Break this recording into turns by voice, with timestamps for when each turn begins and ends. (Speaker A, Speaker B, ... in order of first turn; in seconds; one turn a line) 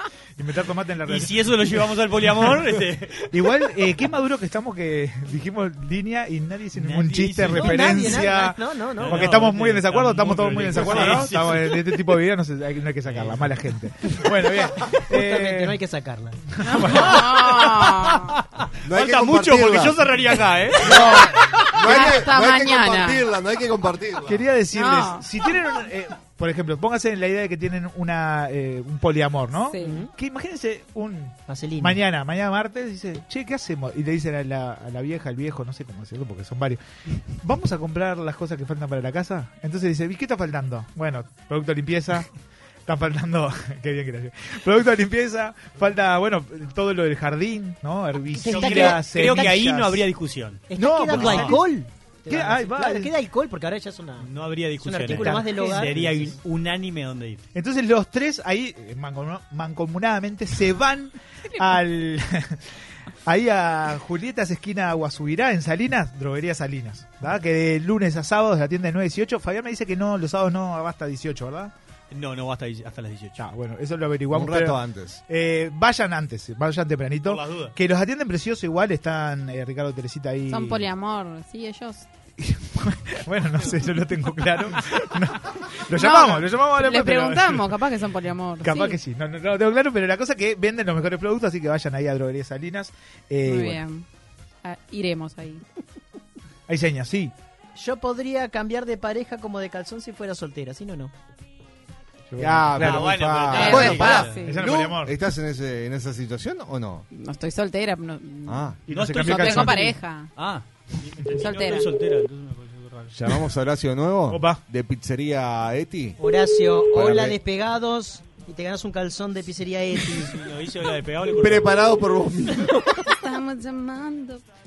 Speaker A: 0.4-1.6
Speaker B: 1.1-3.3
Speaker A: 3.3-15.8
Speaker B: 6.7-8.3
Speaker C: 7.5-9.3
Speaker B: 9.0-12.0
Speaker B: 13.1-13.5
Speaker C: 14.9-16.4
Speaker A: 16.6-17.3
Speaker D: 16.6-18.4
Speaker B: 17.4-21.1
Speaker E: 18.9-20.0
Speaker E: 20.8-24.4
Speaker A: 20.9-21.4
Speaker D: 21.8-23.2
Speaker A: 24.3-42.3
Speaker D: 24.7-25.3
Speaker D: 29.7-30.0
Speaker C: 29.8-30.1
Speaker C: 31.5-32.0
Speaker A: 42.9-50.0
Speaker C: 48.3-49.7
Speaker B: 48.5-51.6
Speaker C: 50.7-56.4
Speaker A: 50.7-51.7
Speaker A: 52.3-53.1
Speaker B: 54.2-57.4
Speaker A: 55.0-56.0
Speaker A: 57.5-62.6
Speaker A: 63.3-71.7
Speaker B: 72.1-73.4
Speaker A: 73.4-80.9
Speaker E: 74.3-75.2
Speaker B: 77.2-77.7
Speaker D: 80.5-82.1
Speaker A: 82.4-87.8
Speaker D: 85.9-89.0
Speaker A: 88.6-93.8
Speaker D: 93.5-94.0
Speaker D: 94.6-95.6
Speaker A: 96.7-97.3
Speaker C: 97.8-101.1
Speaker A: 102.3-105.1
Speaker E: 102.4-107.1
Speaker B: 102.7-104.4
Speaker D: 103.5-104.9
Speaker D: 107.1-108.6
Speaker E: 108.5-108.8
Speaker A: 108.9-110.0
Speaker B: 108.9-109.8
Speaker D: 109.1-110.3
Speaker B: 110.3-113.2
Speaker D: 111.3-111.9
Speaker E: 113.1-116.2
Speaker A: 114.3-114.6
Speaker C: 116.2-120.3
Speaker E: 116.9-117.4
Speaker B: 120.2-122.0
Speaker E: 121.4-122.7
Speaker D: 123.1-124.4